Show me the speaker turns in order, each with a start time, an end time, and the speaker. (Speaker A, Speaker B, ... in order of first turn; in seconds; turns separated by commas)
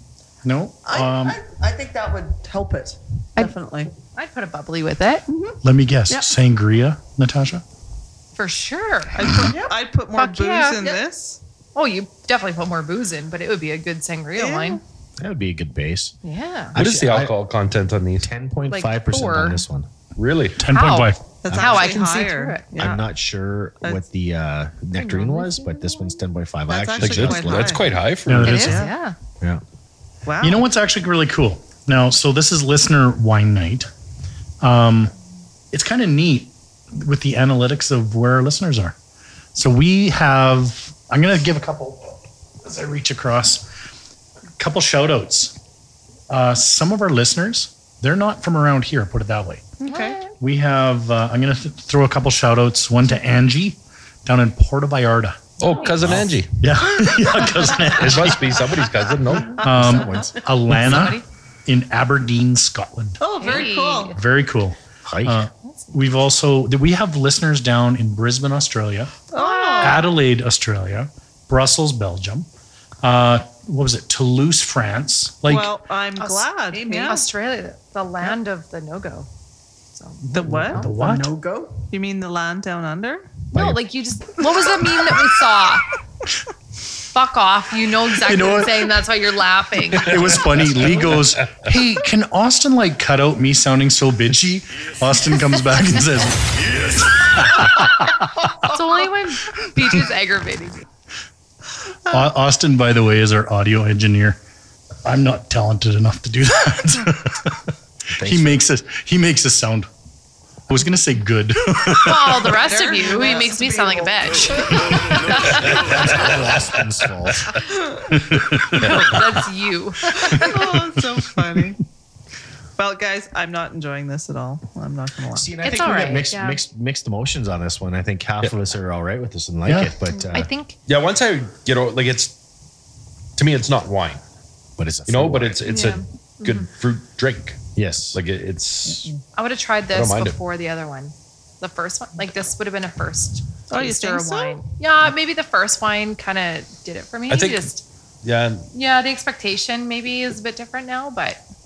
Speaker A: 0.4-1.4, Speaker B: 0.8-3.9, Speaker C: 4.1-5.2, Speaker B: 5.3-5.6, Speaker A: 5.6-7.6, Speaker C: 8.3-9.2, Speaker D: 9.2-11.4, Speaker A: 9.2-9.5, Speaker C: 10.1-10.9, Speaker C: 11.7-14.8, Speaker D: 14.3-14.8, Speaker E: 15.2-16.1, Speaker C: 16.2-16.8, Speaker E: 16.7-17.3, Speaker F: 16.8-18.3, Speaker E: 18.2-19.9, Speaker C: 18.7-19.6, Speaker F: 20.2-20.7, Speaker A: 20.6-21.3, Speaker C: 20.7-22.6, Speaker D: 21.4-23.0, Speaker E: 22.8-27.9, Speaker C: 25.0-25.5, Speaker D: 26.7-27.9, Speaker F: 27.0-28.7, Speaker A: 28.3-28.9, Speaker D: 28.4-28.9, Speaker C: 28.4-29.1, Speaker D: 30.2-30.7, Speaker A: 30.4-33.9, Speaker A: 34.6-35.1, Speaker A: 35.7-38.9, Speaker A: 39.5-43.7, Speaker A: 44.6-45.5, Speaker A: 46.3-49.6, Speaker D: 49.8-50.2, Speaker C: 49.9-50.3, Speaker A: 50.4-55.5, Speaker F: 55.6-56.8, Speaker E: 56.0-56.3, Speaker A: 56.6-58.7, Speaker F: 58.0-59.6, Speaker A: 59.5-63.2, Speaker E: 59.6-60.8, Speaker C: 60.8-61.2, Speaker D: 63.2-64.1, Speaker C: 63.4-64.2, Speaker A: 64.1-69.2, Speaker E: 65.0-65.5, Speaker C: 65.7-66.0, Speaker D: 69.3-70.0, Speaker C: 69.3-70.1, Speaker A: 69.8-72.5, Speaker A: 73.0-75.8, Speaker D: 75.4-77.2, Speaker B: 76.7-77.3, Speaker C: 77.1-79.3, Speaker C: 79.9-80.8, Speaker D: 80.3-80.8, Speaker A: 80.5-81.3, Speaker B: 80.7-81.9, Speaker D: 81.9-83.3, Speaker C: 83.5-85.9, Speaker E: 83.5-83.8, Speaker C: 87.1-90.3, Speaker A: 88.2-88.9, Speaker A: 89.9-98.5, Speaker F: 91.4-91.7, Speaker C: 98.6-100.8, Speaker A: 102.1-104.4, Speaker A: 105.0-107.6, Speaker E: 108.1-108.6, Speaker A: 108.2-109.9, Speaker A: 110.7-112.6, Speaker C: 112.0-115.9, Speaker D: 112.4-115.2, Speaker B: 113.0-114.9, Speaker E: 115.3-117.6, Speaker A: 118.1-119.0, Speaker C: 118.7-120.7, Speaker F: 118.8-119.1, Speaker D: 120.2-121.8, Speaker A: 120.3-120.6, Speaker D: 122.8-125.6, Speaker E: 125.3-130.5, Speaker C: 125.6-126.6, Speaker A: 129.7-129.9, Speaker C: 130.1-130.8, Speaker F: 130.8-132.3, Speaker F: 133.3-134.2, Speaker E: 134.8-135.6, Speaker F: 135.1-139.2, Speaker C: 135.7-136.7, Speaker E: 137.7-138.2, Speaker C: 139.3-147.8, Speaker F: 139.9-140.4, Speaker D: 143.7-144.6, Speaker F: 147.3-147.7, Speaker F: 148.2-148.7, Speaker C: 148.7-151.4